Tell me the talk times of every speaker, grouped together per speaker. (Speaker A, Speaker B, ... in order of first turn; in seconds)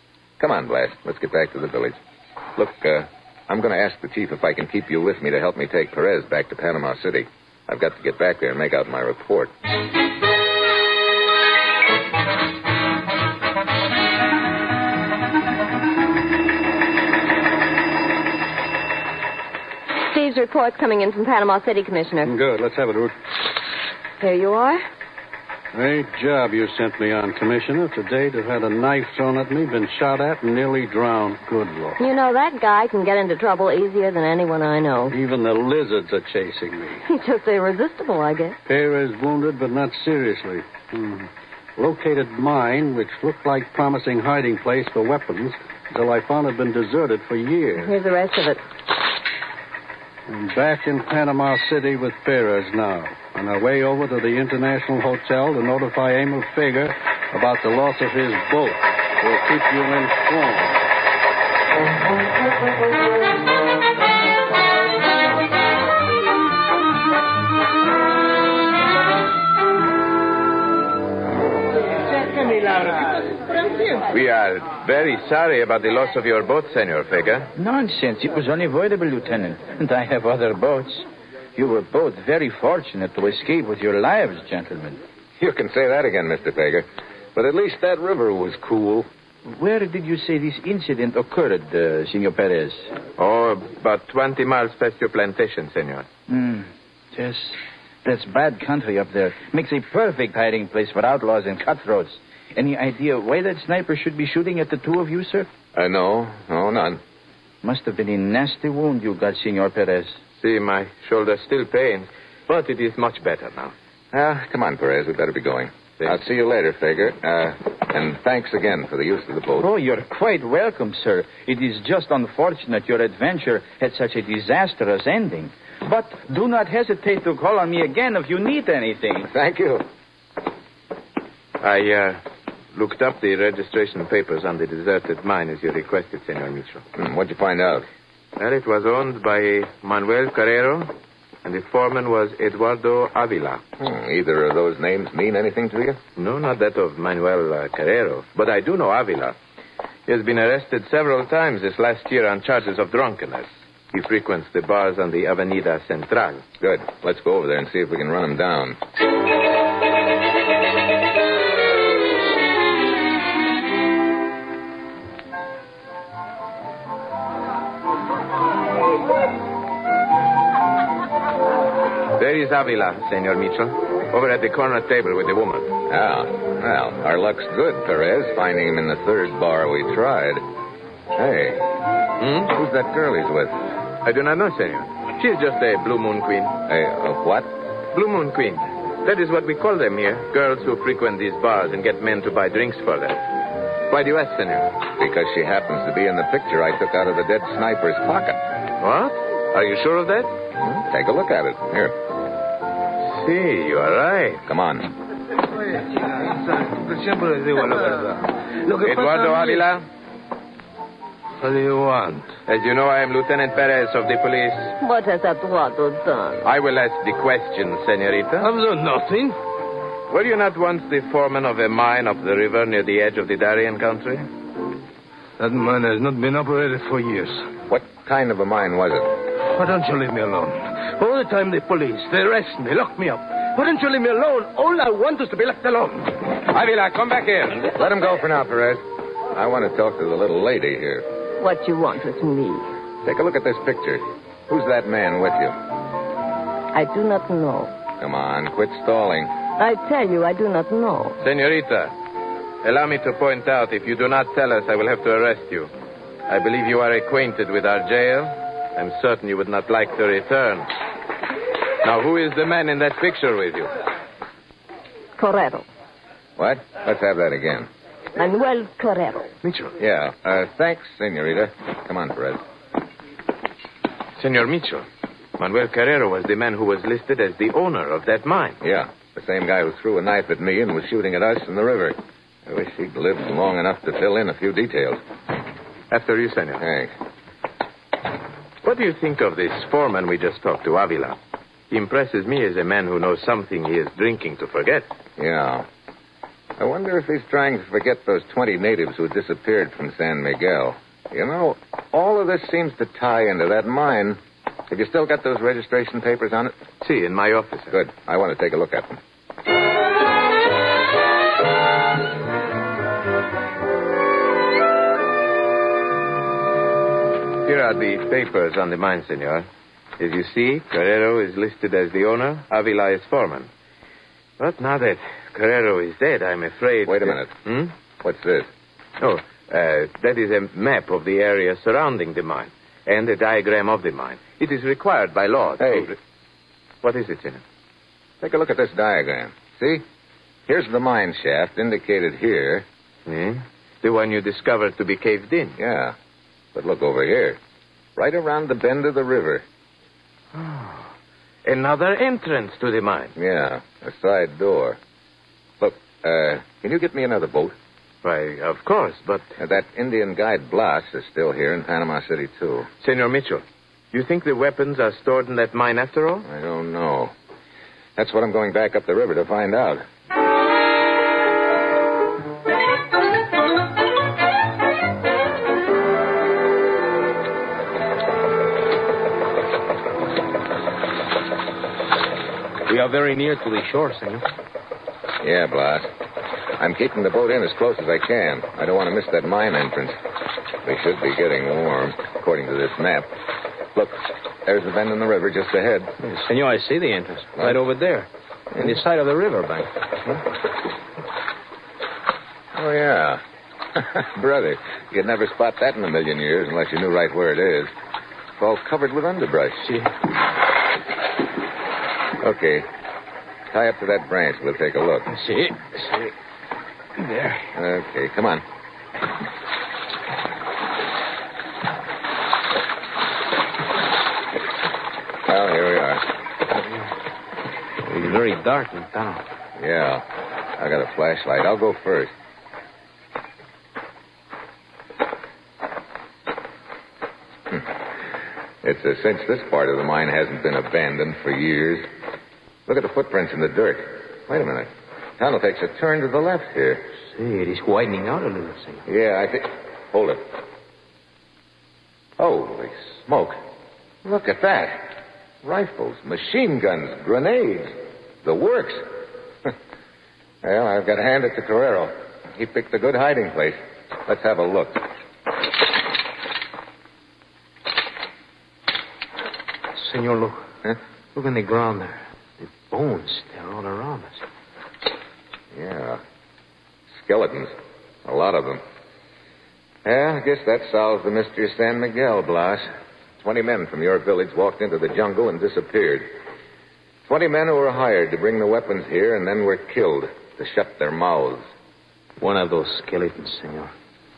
Speaker A: 0.4-2.0, 2.6-9.5, 85.4-89.1, 105.8-107.0, 114.1-119.7, 129.3-129.8, 136.9-137.9, 143.8-146.0, 156.6-158.8, 175.9-180.4, 181.2-181.7, 182.4-183.6, 186.7-187.5, 195.0-198.4, 200.6-201.9, 204.5-204.9, 227.7-229.1, 237.7-241.1, 243.0-245.6, 248.0-249.3, 266.4-267.7, 269.8-272.4, 278.6-285.0, 286.6-286.9, 295.2-295.7, 296.6-306.6, 307.7-309.0, 326.9-327.3, 328.0-328.5, 335.6-335.9, 338.2-339.9, 340.5-342.7, 345.6-346.0, 346.6-347.4, 348.0-349.4, 353.2-354.8, 355.6-357.6, 359.4-362.7, 366.2-367.1, 368.0-369.9, 385.2-385.9, 386.6-390.0, 390.6-393.1, 393.8-396.0, 402.6-403.2, 403.8-407.7, 408.4-409.7, 412.2-412.7, 413.5-415.1, 417.5-418.4, 425.3-426.1, 429.6-430.1, 430.6-432.1, 438.6-441.9, 442.7-446.9, 448.9-450.2, 452.2-453.4, 454.0-459.5, 460.4-464.9, 475.5-476.0, 477.0-478.6, 479.9-486.1, 487.1-491.5
Speaker B: 20.0-22.3, 24.2-24.9, 32.0-35.2, 37.0-38.6, 47.8-48.6, 214.8-216.4, 241.4-242.7, 246.7-247.7, 249.6-251.2, 265.2-265.7, 268.2-269.4
Speaker C: 22.2-23.1, 25.7-32.0, 35.1-37.0, 38.7-47.9, 50.3-60.8
Speaker D: 74.1-77.5, 93.2-96.1, 110.4-113.7, 131.6-136.8, 138.4-143.6, 146.2-149.4, 150.1-156.4, 172.1-175.7, 182.2-182.5, 184.0-186.6, 187.9-193.3, 193.9-194.8, 198.8-200.3, 203.0-204.4, 208.8-209.9, 212.5-214.8, 216.4-218.5, 220.1-224.3, 236.5-237.5, 251.2-251.9, 252.6-255.7, 256.3-260.7, 261.8-263.8, 269.4-269.8, 274.2-274.9, 275.4-278.6, 285.9-286.6, 288.6-291.2, 291.7-294.9, 306.8-307.8, 317.4-319.5, 320.0-323.5, 324.4-327.7, 329.0-336.0, 336.8-337.4, 343.1-345.6, 350.3-350.9, 351.4-353.1, 358.0-359.3, 362.8-366.3
Speaker E: 77.6-85.0, 89.5-92.9, 96.3-105.5, 107.6-110.2, 119.6-129.3
Speaker F: 205.8-209.7, 211.4-212.4, 218.4-219.4, 225.4-227.5, 229.5-237.5
Speaker G: 382.7-384.3, 396.0-399.7, 409.6-409.9, 415.1-416.1, 417.0-417.5, 427.9-429.2, 447.1-448.8, 469.8-470.5, 471.1-474.2, 492.2-493.7